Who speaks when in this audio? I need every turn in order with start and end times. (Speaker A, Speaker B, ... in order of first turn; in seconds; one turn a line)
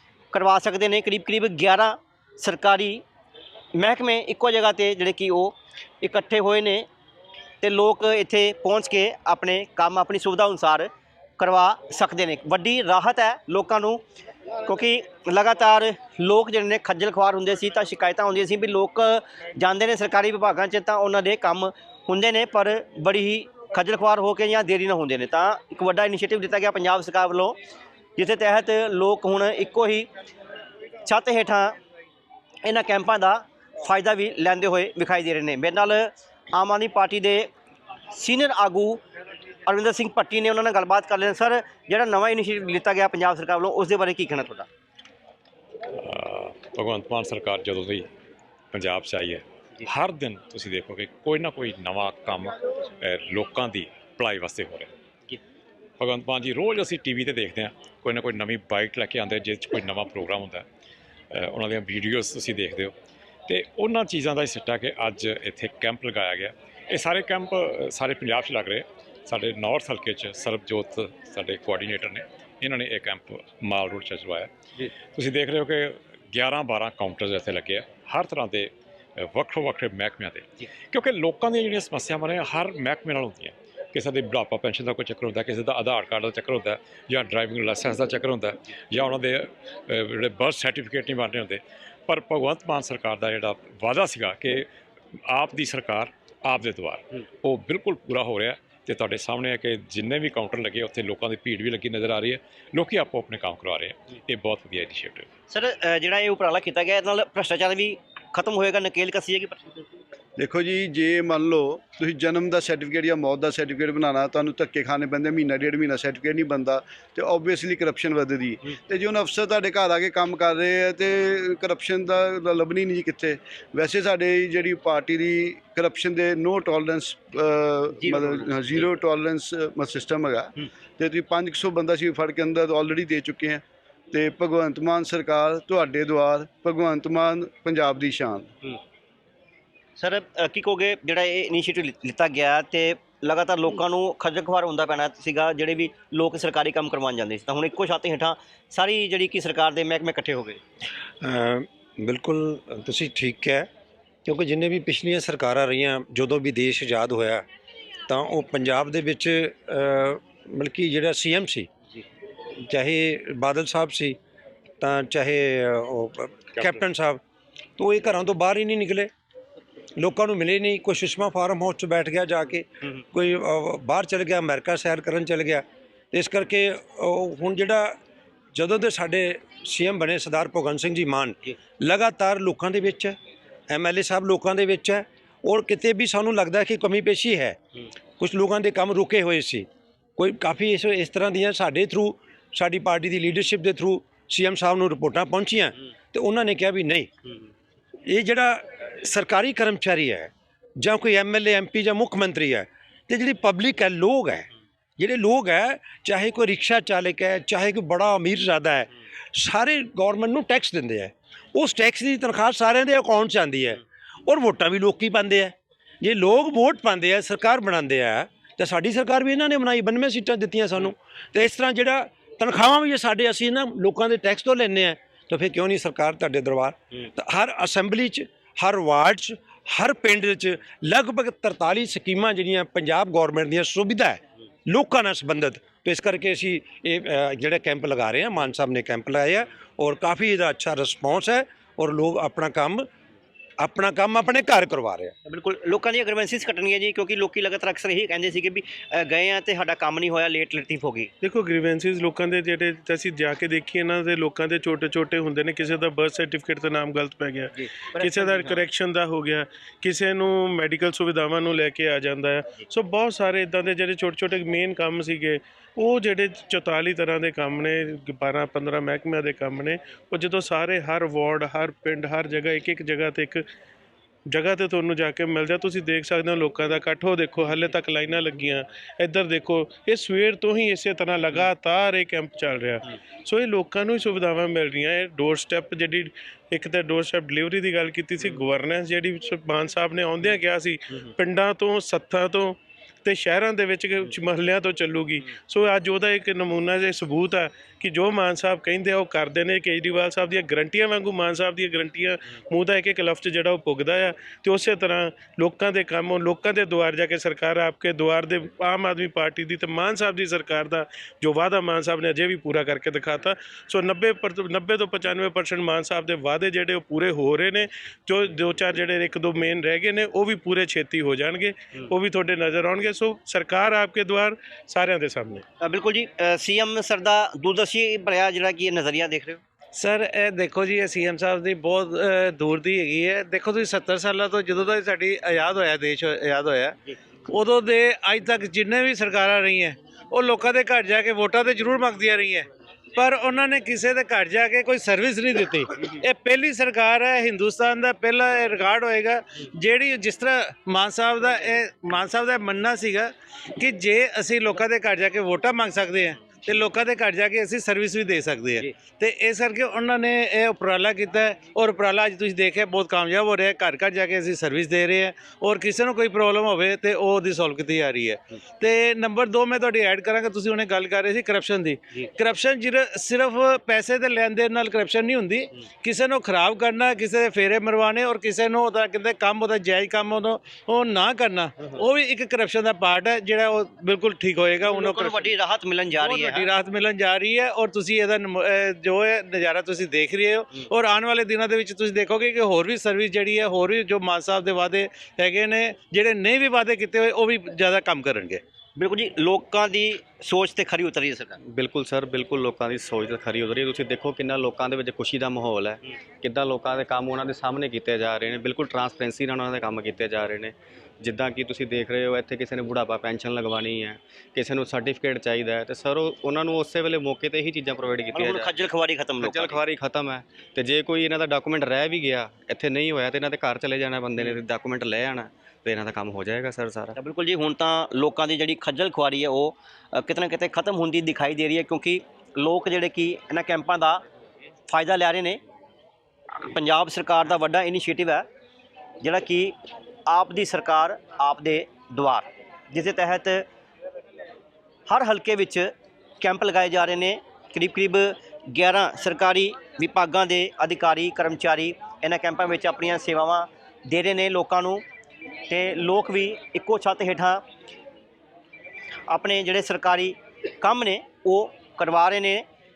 Speaker A: 0.3-3.0
Speaker A: 3.8-6.9
Speaker A: 7.6-14.0
Speaker A: 14.6-27.6
Speaker A: 28.2-30.1
Speaker A: 31.0-31.8
Speaker A: 32.6-37.5
Speaker A: 38.1-39.0
Speaker A: 39.6-44.7
Speaker B: 45.9-48.1
Speaker B: 48.7-54.9
Speaker B: 56.0-60.7
Speaker B: 61.3-62.9
Speaker B: 63.5-74.5
Speaker B: 75.1-94.7
Speaker B: 95.3-105.3
Speaker A: 105.5-109.9
Speaker C: 110.4-138.5
Speaker A: 128.0-128.4
Speaker A: 140.0-150.6
Speaker D: 151.2-153.7
Speaker D: 154.2-157.4
Speaker D: 158.1-161.7
Speaker D: 162.6-164.2
Speaker D: 164.8-167.2
Speaker D: 167.8-169.1
Speaker D: 170.0-178.0
Speaker D: 178.5-183.2
Speaker D: 183.7-187.6
Speaker D: 188.2-197.1
Speaker D: 198.1-242.9
Speaker D: 243.6-245.1
Speaker A: 245.3-251.1
Speaker E: 251.2-273.4
Speaker A: 257.6-258.6
Speaker E: 274.3-325.4
Speaker A: 325.6-329.4
Speaker F: 329.8-336.7
Speaker F: 337.3-385.2
Speaker A: 384.6-386.5
Speaker F: 386.1-398.4
Speaker A: 398.8-401.4
Speaker G: 401.4-418.2
Speaker A: 418.1-419.6
Speaker G: 419.2-426.9
Speaker A: 427.0-434.0
Speaker A: 434.7-435.4
Speaker A: 436.4-438.2
Speaker A: 439.0-439.5
Speaker A: 440.1-443.4
Speaker A: 444.9-454.8
Speaker A: 455.5-457.4
Speaker A: 459.1-462.4